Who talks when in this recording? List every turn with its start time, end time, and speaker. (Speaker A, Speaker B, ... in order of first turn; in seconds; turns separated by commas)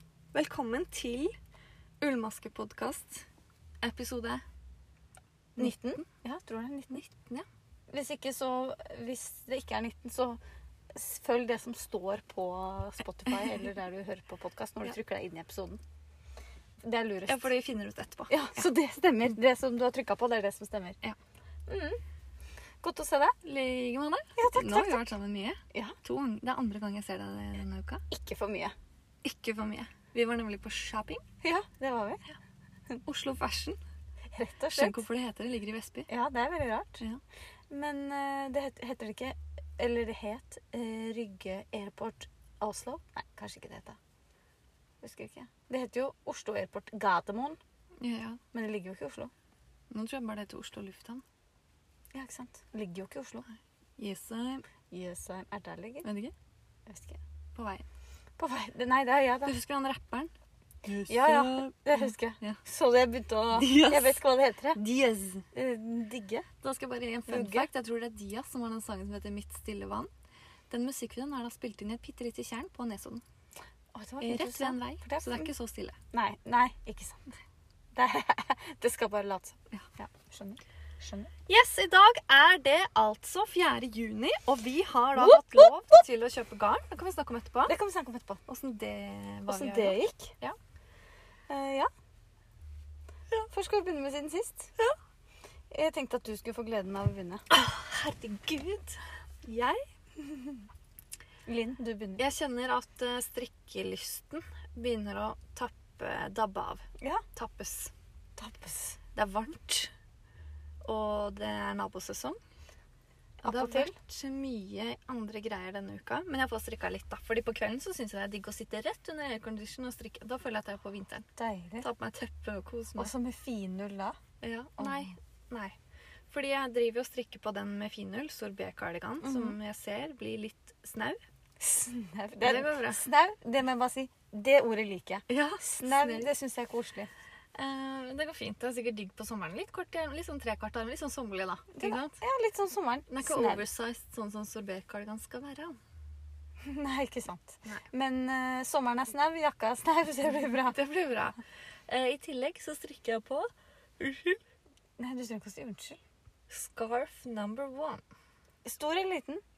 Speaker A: 0.3-1.3, Speaker A: 2.0-3.2, Speaker A: 3.8-4.4, Speaker A: 5.5-6.0, Speaker B: 5.6-7.0, Speaker A: 6.9-7.5, Speaker B: 7.9-10.4, Speaker B: 10.9-15.8, Speaker B: 16.8-17.5, Speaker A: 17.3-18.7, Speaker B: 18.3-21.0, Speaker B: 21.7-22.0, Speaker B: 22.8-23.4, Speaker A: 23.4-28.0, Speaker B: 24.4-25.1, Speaker B: 28.1-28.7, Speaker A: 29.2-31.2, Speaker B: 31.4-32.3, Speaker A: 33.0-33.8, Speaker B: 34.3-35.0, Speaker A: 34.7-36.1, Speaker B: 36.1-37.0, Speaker B: 37.7-44.0, Speaker B: 45.0-47.6, Speaker A: 48.0-48.4, Speaker B: 48.5-49.3, Speaker A: 49.9-51.2, Speaker B: 52.1-53.5, Speaker A: 54.0-54.6, Speaker B: 54.9-56.1, Speaker A: 56.0-56.3, Speaker B: 56.9-57.2, Speaker A: 57.5-57.8, Speaker B: 58.4-59.5, Speaker A: 59.5-60.3, Speaker A: 60.8-62.6, Speaker B: 61.1-64.8, Speaker A: 63.5-64.2, Speaker A: 64.8-65.5, Speaker B: 65.5-66.5, Speaker A: 66.6-70.1, Speaker B: 67.3-67.7, Speaker A: 70.7-73.2, Speaker B: 73.9-75.5, Speaker A: 74.2-76.0, Speaker B: 76.1-77.3, Speaker B: 77.9-81.3, Speaker A: 81.5-87.7, Speaker B: 85.2-85.7, Speaker B: 87.7-88.4, Speaker A: 88.5-90.5, Speaker B: 89.5-90.4, Speaker B: 91.5-91.9, Speaker B: 93.5-94.7, Speaker B: 95.7-97.5, Speaker A: 97.5-99.8, Speaker B: 100.2-100.6, Speaker B: 101.5-102.2, Speaker A: 102.2-107.9, Speaker B: 107.0-107.2, Speaker B: 108.4-109.0, Speaker A: 109.2-109.9, Speaker A: 110.8-112.4, Speaker B: 113.4-114.0, Speaker A: 113.4-121.3, Speaker B: 121.4-121.9, Speaker A: 121.8-123.1, Speaker B: 123.0-124.2, Speaker A: 124.4-125.8, Speaker B: 124.8-125.1, Speaker A: 126.3-131.2, Speaker B: 129.2-129.6, Speaker B: 131.6-137.1, Speaker A: 132.4-133.1, Speaker A: 135.3-136.3, Speaker A: 137.5-142.2, Speaker B: 141.8-143.6, Speaker A: 143.1-145.8, Speaker B: 146.6-150.8, Speaker A: 150.7-154.4, Speaker B: 155.0-156.0, Speaker A: 156.5-158.0, Speaker B: 158.6-159.4